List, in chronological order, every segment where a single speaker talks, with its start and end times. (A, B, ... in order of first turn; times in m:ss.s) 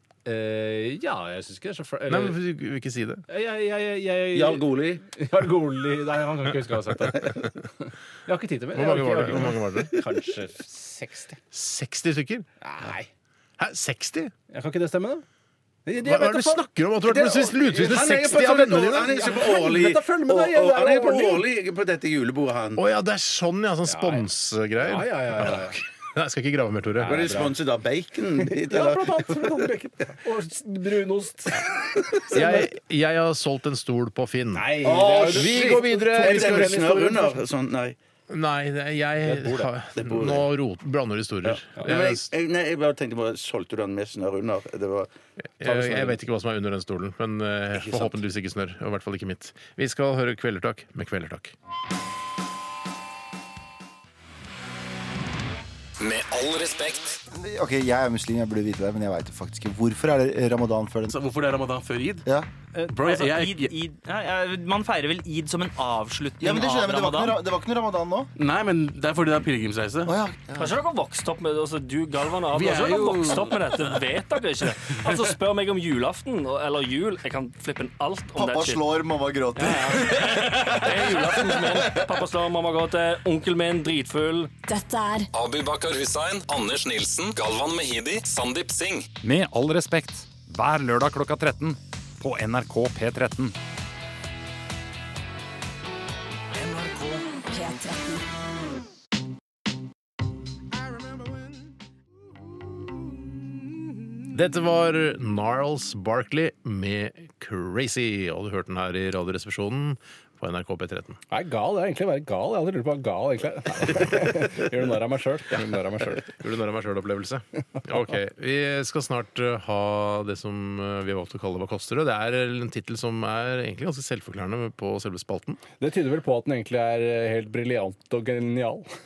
0:00.2-0:02.4 A
0:02.1-0:03.2 B
0:03.3-0:11.4 A
0:04.3-0:05.0 C
0:08.7-0:10.0 B
0:11.5-0:12.4 B
0:12.6-0:13.1 A
0:13.6-0:14.3 B
0:14.5-0:15.2 A
0:15.8-0:16.6 A
0:16.0-0:19.2 B
0:17.0-0:22.8 C
0:18.9-0:21.4 A
0:22.8-0:27.2 B
0:23.9-0:24.2 A
0:24.8-0:25.8 A
0:27.0-0:27.6 A
0:27.0-0:29.7 C
0:28.4-0:32.7 A
0:32.3-0:36.9 B
0:34.5-0:37.4 A
0:34.8-0:38.0 C
0:38.3-0:42.2 B
0:39.3-0:40.5 C
0:41.5-0:45.1 C
0:45.6-0:51.5 B
0:45.6-0:46.2 A
0:47.7-0:48.2 C
0:56.0-0:57.2 D
0:57.4-1:00.9 E
1:01.1-1:02.2 F
1:02.9-1:03.8 F
1:02.9-1:07.4 G
1:06.6-1:08.1 E
1:08.4-1:10.2 F
1:10.5-1:24.6 H
1:12.5-1:13.5 F
1:18.4-1:19.8 E
1:24.7-1:25.3 I
1:25.3-1:29.1 D
1:29.2-1:33.6 J
1:36.5-1:38.2 I
1:44.3-1:51.2 B
1:51.3-1:56.3 A
1:56.2-2:05.6 B
2:05.8-2:08.9 A